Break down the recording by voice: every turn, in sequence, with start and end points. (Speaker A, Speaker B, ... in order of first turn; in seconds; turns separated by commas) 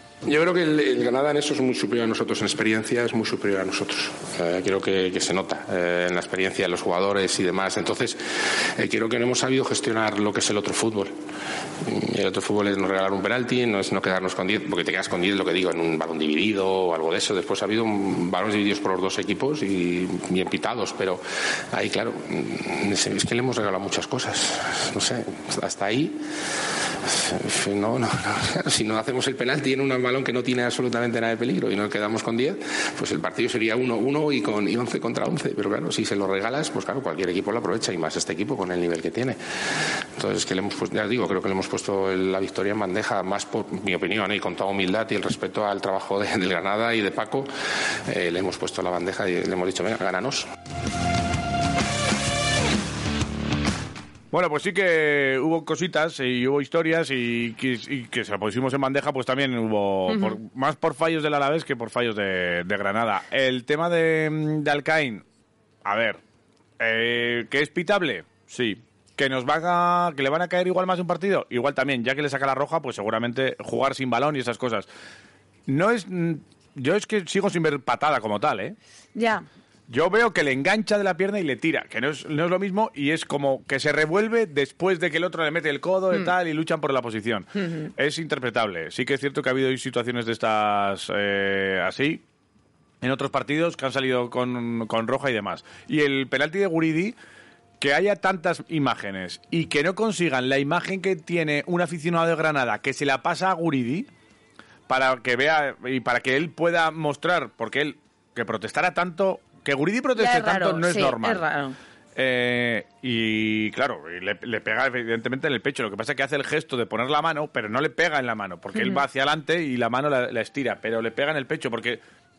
Speaker A: 0.2-11.1, Speaker A: 11.8-26.2, Speaker A: 27.0-39.4, Speaker A: 40.1-47.5, Speaker A: 48.1-50.5, Speaker B: 54.3-65.2, Speaker C: 60.1-60.4, Speaker B: 65.8-66.2, Speaker B: 66.8-74.9, Speaker B: 75.7-78.8, Speaker C: 79.1-79.4, Speaker B: 79.9-92.2, Speaker C: 87.6-87.9, Speaker B: 93.0-97.1, Speaker B: 97.8-104.1, Speaker B: 104.9-111.4, Speaker C: 110.2-111.8, Speaker B: 112.2-122.0, Speaker C: 118.8-119.0